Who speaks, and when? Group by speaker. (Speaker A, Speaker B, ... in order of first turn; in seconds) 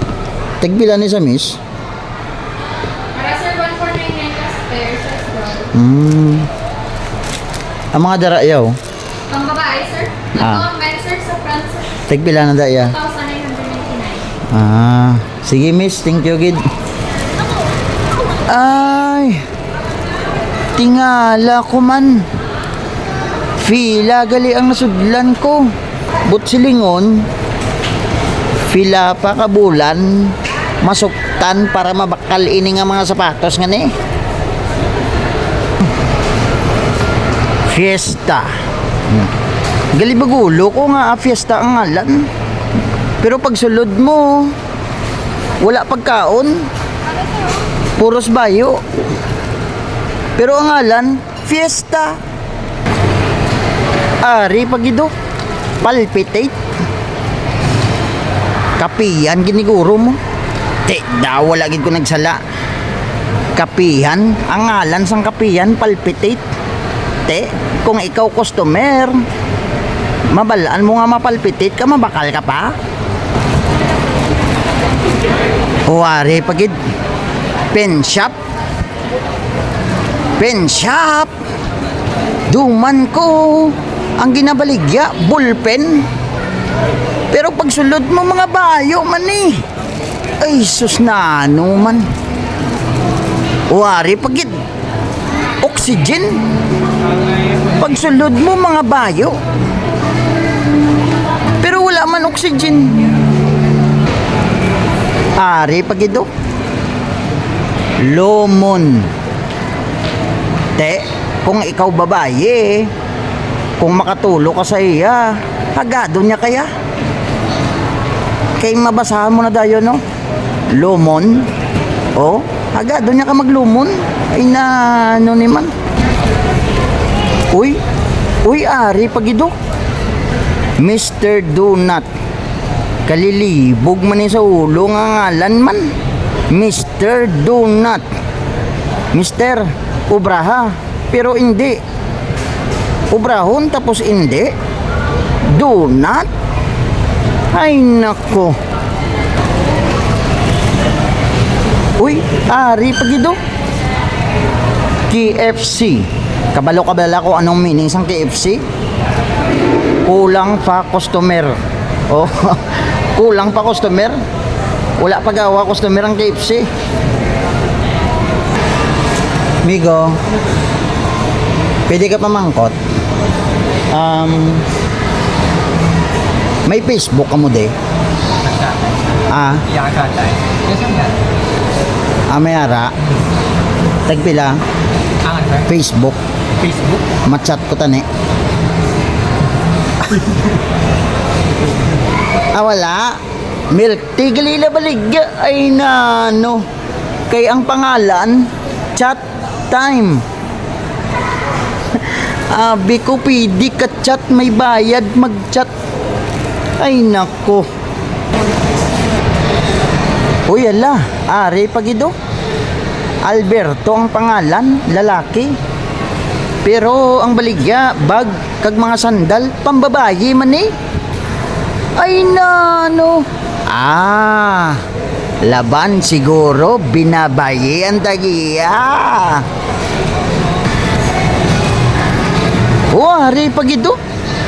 Speaker A: 0.6-1.6, 5.7-6.5, 7.9-8.8, 10.3-10.7, 12.1-13.0, 14.5-16.7, 18.5-19.4, 20.8-22.3, 23.6-25.7, 26.3-27.3, 28.7-33.9, 37.7-38.5, 39.9-42.3, 43.2-44.5, 45.6-46.7, 48.0-48.8, 50.4-52.2, 54.2-55.1, 55.8-56.5, 58.8-60.2, 60.8-62.4, 63.5-66.4, 67.2-69.2, 70.3-72.8, 75.9-76.8, 77.7-78.3, 80.4-81.3, 82.5-86.0, 87.3-89.6, 90.4-92.1, 93.7-94.5, 95.6-96.4, 97.7-99.4, 101.6-103.1, 105.4-106.3, 108.0-109.1, 110.8-112.9, 113.8-116.7, 118.6-120.0, 120.7-121.5, 122.1-125.7, 127.5-127.8, 128.4-129.6, 130.8-132.1, 133.1-135.9, 136.5-138.1, 139.1-141.8, 143.1-144.5, 145.5-146.3, 147.5-148.6, 152.0-153.4, 155.1-158.6, 160.1-161.6, 162.1-164.2, 165.0-166.7, 169.6-170.2, 171.9-172.8, 173.9-174.7, 176.7-177.7, 179.3-179.7, 182.3-182.9, 184.1-184.6, 185.5-186.2, 187.2-188.1, 192.5-193.2, 193.7-196.7, 197.3-200.2, 201.9-205.7, 206.8-207.7, 210.5-212.1, 213.2-215.5, 216.6-220.7, 222.0-224.8, 225.4-229.4, 232.9-234.0
Speaker B: 3.1-5.5, 9.3-11.9, 13.0-14.2
Speaker C: 178.5-178.9, 179.7-181.2, 185.3-185.6, 186.6-187.0